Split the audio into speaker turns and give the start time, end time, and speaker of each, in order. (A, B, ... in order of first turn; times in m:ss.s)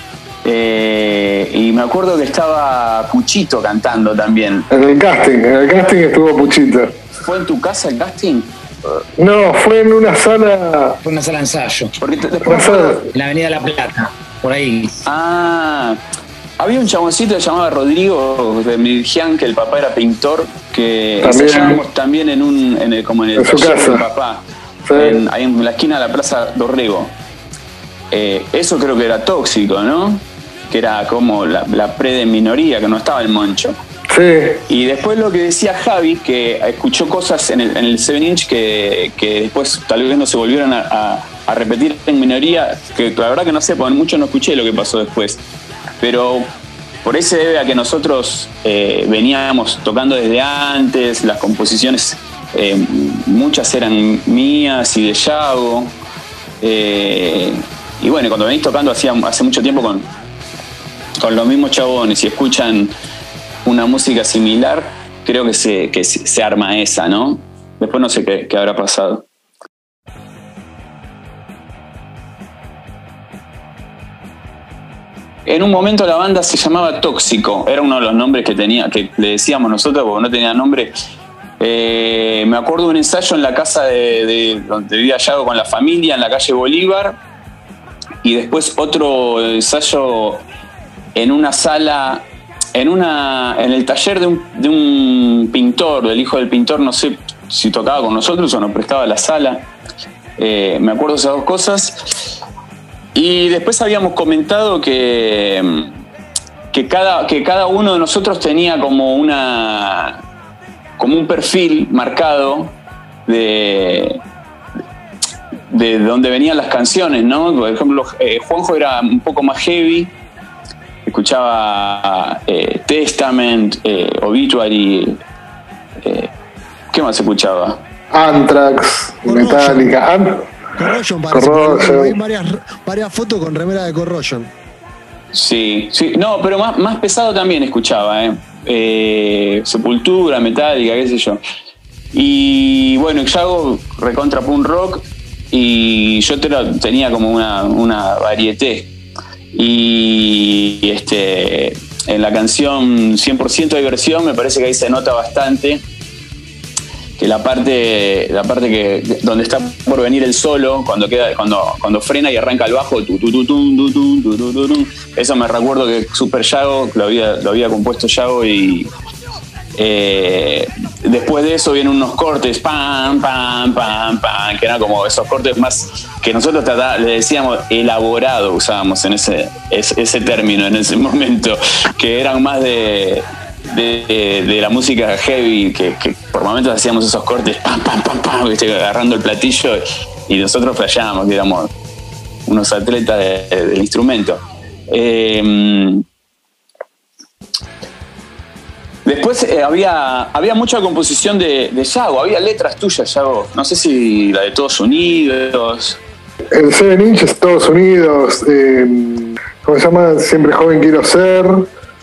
0:00.4-0:04.7 A
0:04.7-0:07.0 B
0:07.2-0:08.5 A
0:09.2-0:11.0 B
0:11.0-0:12.0 C
0:12.0-0:13.0 A
0:12.5-0:13.1 B
0:13.1-0:15.0 C
0:15.0-0:16.0 A
0:16.6-0:24.4 A
0:21.2-0:21.8 B
0:23.4-0:24.0 B
0:24.9-0:25.2 B
0:25.0-0:27.1 A
0:28.1-0:33.8 A
0:34.1-0:34.6 B
0:34.7-0:45.4 A
0:46.0-0:46.5 A
0:47.0-0:56.0 A
0:56.6-1:00.1 A
1:01.2-1:02.9 A
1:03.6-1:09.3 A
1:15.5-1:20.9 A
1:21.6-1:27.2 A
1:28.2-1:30.4 A
1:31.2-1:39.7 A
1:40.4-1:42.0 A
1:43.2-1:45.9 A
1:46.7-1:50.2 A
1:51.0-1:54.2 A
1:55.7-2:00.1 A
2:01.1-2:05.2 A
2:06.0-2:06.3 A
2:06.9-2:07.8 A
2:08.1-2:10.5 B
2:09.3-2:09.9 D
2:10.8-2:14.5 D
2:11.3-2:12.1 B
2:15.3-2:21.4 A
2:22.1-2:28.9 A
2:29.5-2:35.8 A
2:37.2-2:48.9 A
2:49.8-3:11.7 A
3:12.5-3:16.0 A
3:19.0-3:26.0 A
3:26.5-3:31.7 B